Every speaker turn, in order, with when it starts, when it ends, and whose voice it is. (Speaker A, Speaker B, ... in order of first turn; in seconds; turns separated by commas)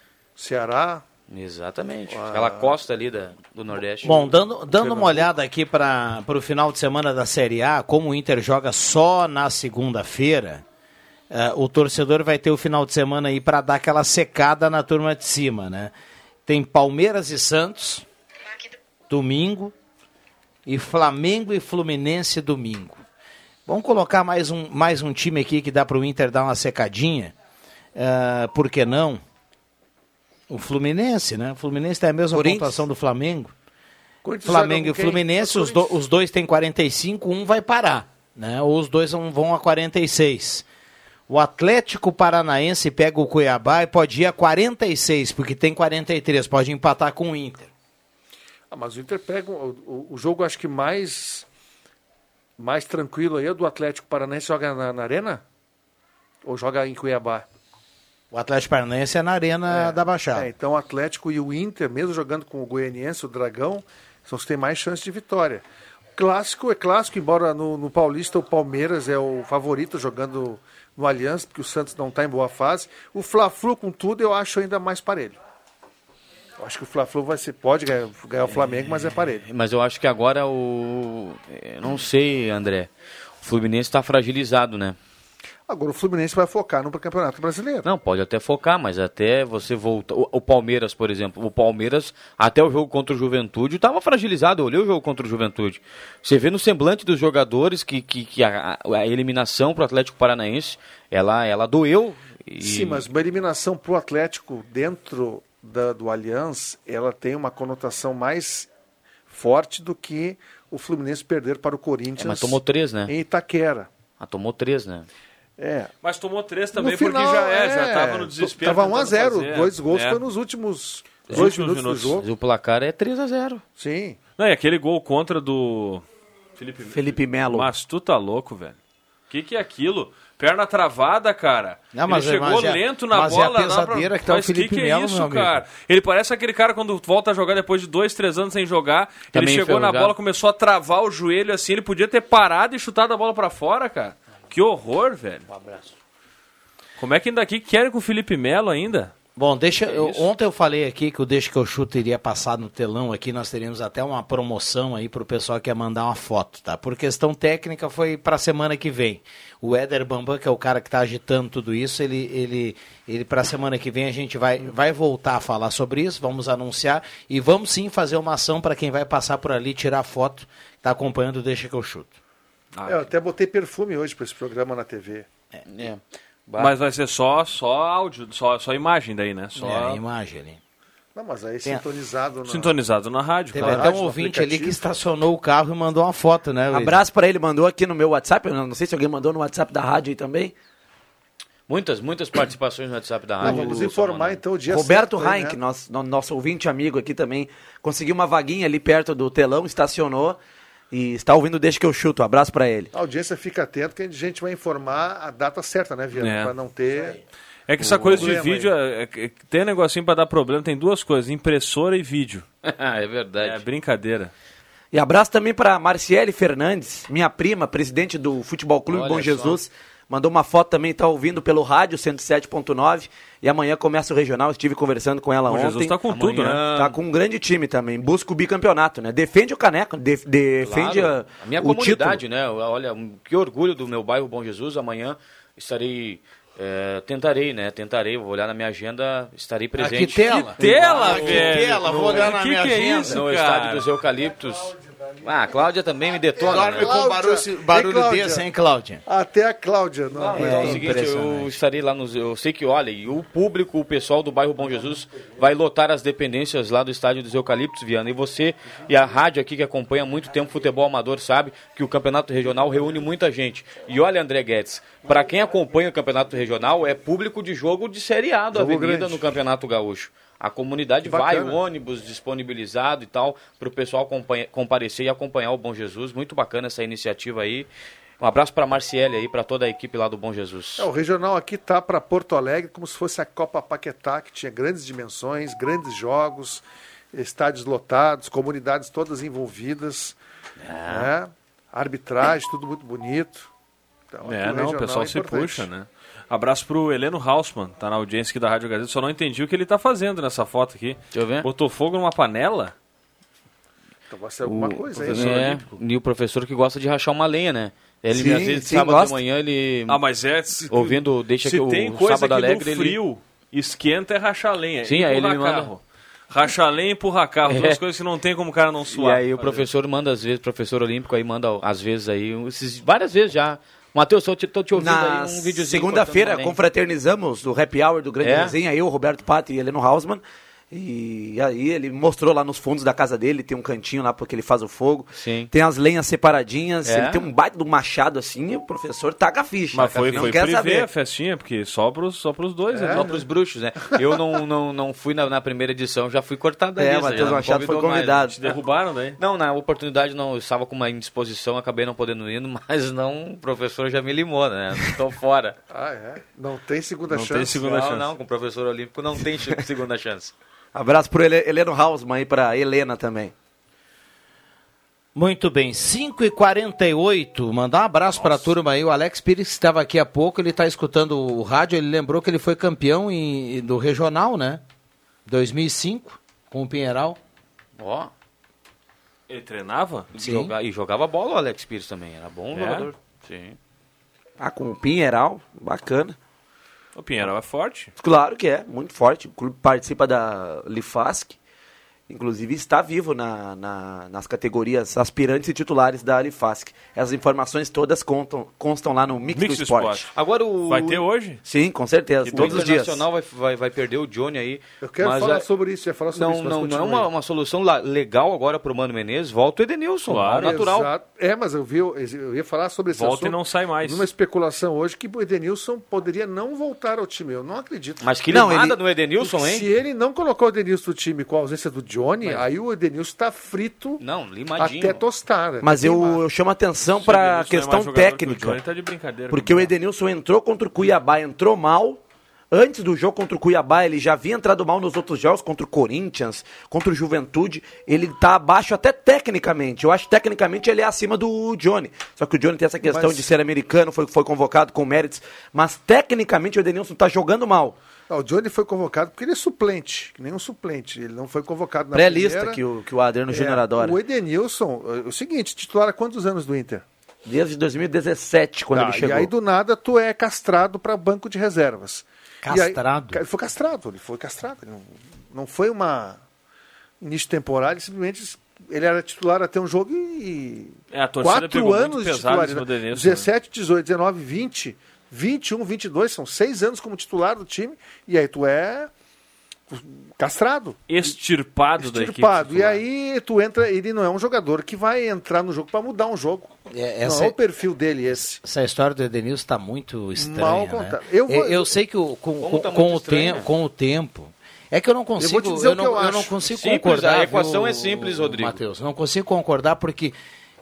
Speaker A: 0.3-1.0, Speaker B: 1.3-4.2, Speaker A: 2.1-2.8, Speaker C: 4.0-10.6, Speaker D: 4.9-5.2, Speaker C: 11.3-15.9, Speaker C: 16.5-18.0, Speaker C: 19.1-19.7, Speaker C: 20.6-23.0, Speaker C: 23.6-27.3, Speaker C: 27.9-29.2, Speaker C: 30.5-33.5, Speaker A: 32.3-32.8, Speaker A: 34.2-36.0, Speaker C: 34.4-40.6, Speaker C: 41.3-47.7, Speaker A: 48.7-51.5, Speaker A: 52.6-55.4, Speaker A: 56.4-57.5, Speaker C: 58.3-60.5, Speaker A: 59.7-65.6, Speaker A: 66.2-75.4, Speaker A: 76.6-79.5, Speaker B: 79.4-82.9, Speaker B: 83.4-85.0, Speaker A: 85.7-87.8, Speaker B: 87.8-103.0, Speaker A: 102.6-108.7, Speaker A: 109.3-113.9, Speaker B: 112.2-113.1, Speaker B: 114.2-115.1, Speaker A: 115.6-115.9, Speaker D: 116.0-120.2, Speaker A: 116.7-122.2, Speaker D: 121.3-122.2, Speaker B: 122.2-123.6, Speaker A: 123.8-124.2, Speaker D: 124.4-126.0, Speaker D: 126.6-128.8, Speaker E: 126.8-127.7, Speaker D: 129.3-145.5, Speaker C: 131.9-135.6, Speaker B: 139.3-140.1, Speaker D: 147.0-149.1, Speaker C: 149.3-172.1, Speaker D: 149.9-150.2, Speaker D: 172.7-173.1, Speaker A: 172.8-175.3, Speaker B: 175.7-176.7, Speaker D: 176.6-180.0, Speaker C: 179.6-180.6, Speaker A: 181.1-182.7, Speaker D: 182.5-183.8, Speaker C: 183.5-187.0, Speaker A: 183.6-184.8, Speaker E: 186.7-190.5, Speaker B: 191.7-194.4, Speaker A: 193.4-195.6, Speaker E: 194.7-200.4, Speaker E: 200.9-202.9, Speaker A: 202.9-207.2, Speaker D: 206.1-206.5, Speaker D: 207.7-212.4, Speaker A: 207.8-208.7, Speaker B: 212.6-213.6, Speaker D: 213.4-214.3, Speaker E: 214.9-226.0, Speaker B: 218.9-219.6, Speaker D: 225.5-226.6, Speaker B: 226.1-227.0, Speaker E: 226.6-232.2, Speaker B: 230.6-242.4, Speaker C: 239.8-243.2, Speaker D: 240.6-243.8, Speaker B: 243.0-246.9, Speaker C: 246.4-249.0, Speaker A: 246.4-248.4, Speaker A: 249.1-250.9, Speaker B: 250.1-277.7, Speaker C: 250.3-251.5, Speaker A: 268.5-269.2, Speaker A: 271.0-271.6, Speaker B: 278.2-280.9, Speaker A: 280.8-290.1, Speaker B: 290.6-291.1, Speaker A: 290.9-293.5, Speaker A: 294.1-295.7, Speaker D: 294.2-302.7, Speaker B: 301.1-301.5, Speaker A: 304.1-305.7, Speaker B: 304.4-310.0, Speaker D: 305.1-305.5, Speaker E: 308.1-309.2, Speaker D: 309.9-319.6, Speaker B: 310.7-313.0, Speaker B: 314.9-315.7, Speaker B: 317.5-317.8, Speaker B: 318.9-326.6, Speaker E: 324.7-340.9, Speaker B: 328.2-328.5, Speaker B: 335.1-335.5, Speaker B: 336.8-337.2, Speaker D: 339.7-343.1, Speaker B: 339.9-340.3, Speaker A: 342.7-343.2, Speaker B: 342.8-348.3, Speaker E: 346.8-348.4, Speaker D: 348.3-349.2, Speaker B: 349.2-355.6, Speaker A: 355.7-357.6, Speaker D: 357.1-358.1, Speaker B: 357.6-360.3, Speaker E: 360.7-363.3, Speaker C: 365.1-374.6, Speaker C: 375.2-377.2, Speaker B: 377.8-378.1, Speaker D: 379.3-380.1, Speaker B: 380.1-383.6, Speaker C: 380.2-380.5, Speaker D: 382.5-382.9, Speaker E: 384.4-386.1, Speaker D: 386.9-387.9, Speaker E: 388.0-391.4, Speaker E: 392.1-400.0, Speaker D: 399.3-400.1, Speaker B: 400.1-401.0, Speaker D: 400.7-401.4, Speaker E: 401.4-403.0, Speaker D: 402.2-402.7, Speaker B: 402.3-405.4, Speaker A: 404.8-407.1, Speaker B: 406.1-410.9, Speaker D: 410.1-410.6, Speaker A: 410.4-418.2, Speaker D: 412.9-414.1, Speaker B: 418.0-419.6, Speaker E: 418.3-418.8, Speaker A: 419.2-424.0, Speaker B: 424.0-425.0, Speaker A: 424.6-426.2, Speaker E: 425.6-428.6, Speaker D: 427.0-429.7, Speaker E: 429.3-432.0, Speaker E: 432.5-447.8, Speaker A: 442.8-443.3, Speaker A: 448.1-452.6, Speaker E: 451.9-454.0, Speaker A: 453.3-456.8, Speaker E: 457.2-459.3, Speaker A: 458.7-466.2, Speaker C: 462.4-463.2, Speaker A: 467.0-478.9, Speaker D: 470.9-473.3, Speaker A: 479.7-480.8, Speaker D: 480.9-482.8, Speaker A: 481.8-488.4, Speaker C: 486.7-487.4, Speaker C: 488.1-500.1, Speaker A: 490.2-491.7, Speaker B: 492.4-493.5, Speaker A: 495.2-496.3, Speaker B: 496.5-498.6